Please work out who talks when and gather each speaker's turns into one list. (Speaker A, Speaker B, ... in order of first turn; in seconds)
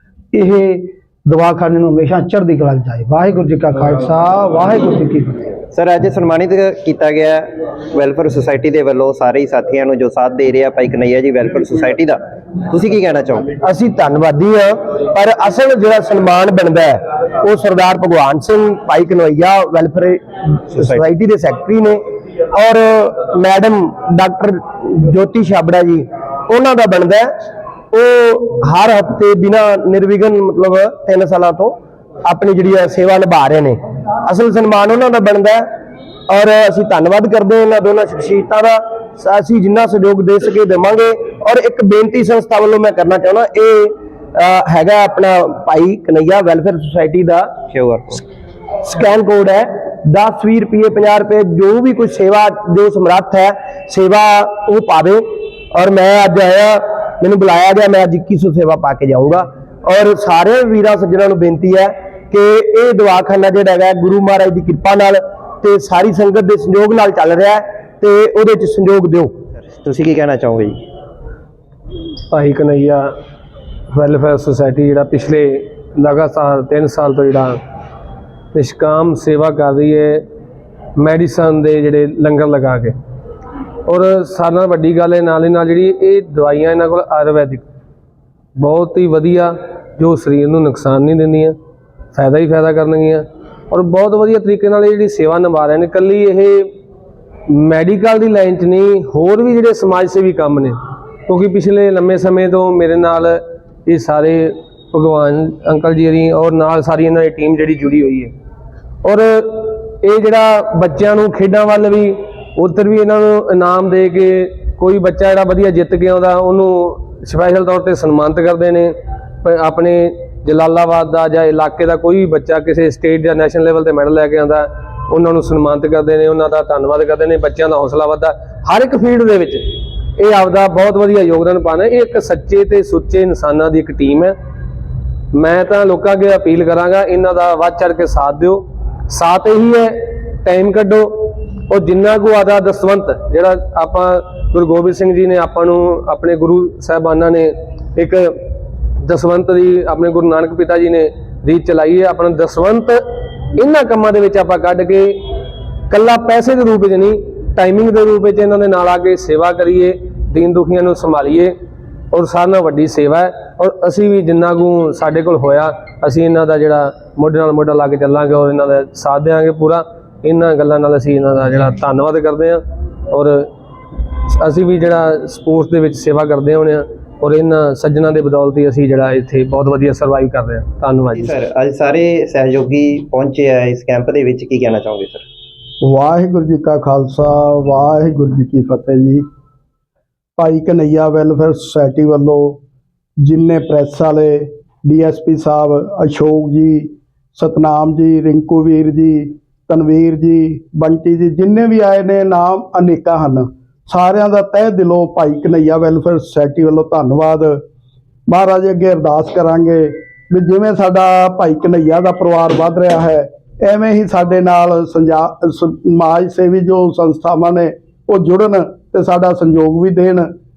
Speaker A: 0.3-5.6
Speaker B: 5.7-13.5, 20.8-21.0, 47.7-48.2, 69.7-70.8, 181.1-185.3
Speaker C: 13.6-27.4, 27.9-35.7, 36.3-47.6, 48.8-69.4
Speaker D: 72.3-73.1, 73.9-77.6, 78.5-80.2, 81.0-83.0, 83.9-87.7, 88.6-91.6, 92.1-96.7, 97.5-108.3, 109.0-134.3, 135.3-148.3, 149.0-153.0, 153.6-155.3, 155.9-161.5, 162.1-173.5, 174.3-181.4
Speaker E: 185.8-189.2, 190.4-192.6, 193.2-207.6, 208.3-220.3